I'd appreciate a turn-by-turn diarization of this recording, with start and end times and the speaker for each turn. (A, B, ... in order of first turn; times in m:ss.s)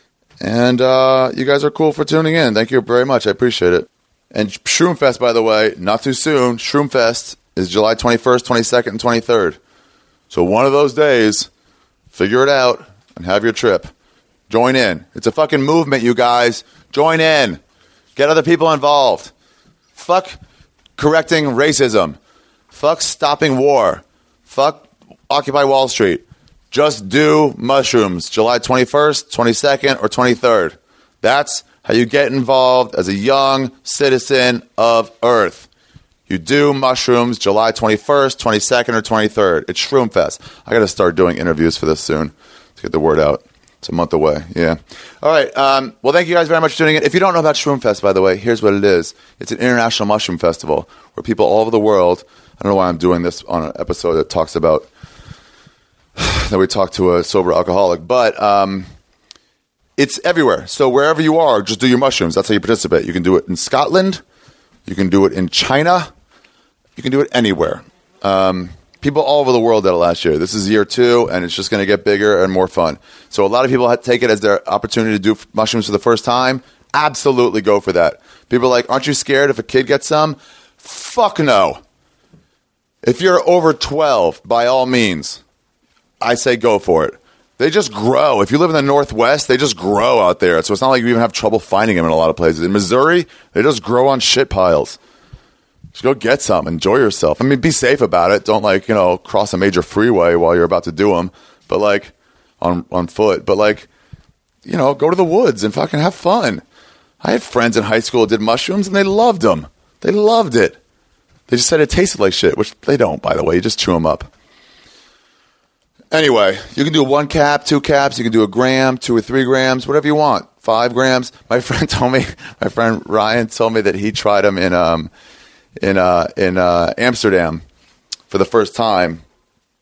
0:00.4-0:09.6 A
0:10.3-0:11.5 A
0:12.1-0:13.9 A
0:14.5-0:17.6 A
0:18.2-0:19.3 A
0:19.9-0:20.4 A
0:21.0-0:22.2 A
0:22.7-0:35.7 A
0:36.3-0:54.9 A
0:56.2-0:58.9 A
1:00.0-1:04.2 A
1:04.9-1:06.1 A
1:07.0-1:21.8 A
1:23.0-1:25.4 A
1:26.2-1:35.0 A
1:35.9-1:43.9 A
1:44.6-1:46.6 A
1:47.2-1:50.8 A
1:51.5-1:54.3 A
1:56.1-2:05.1 A
2:05.8-2:07.6 A
2:08.3-2:09.2 A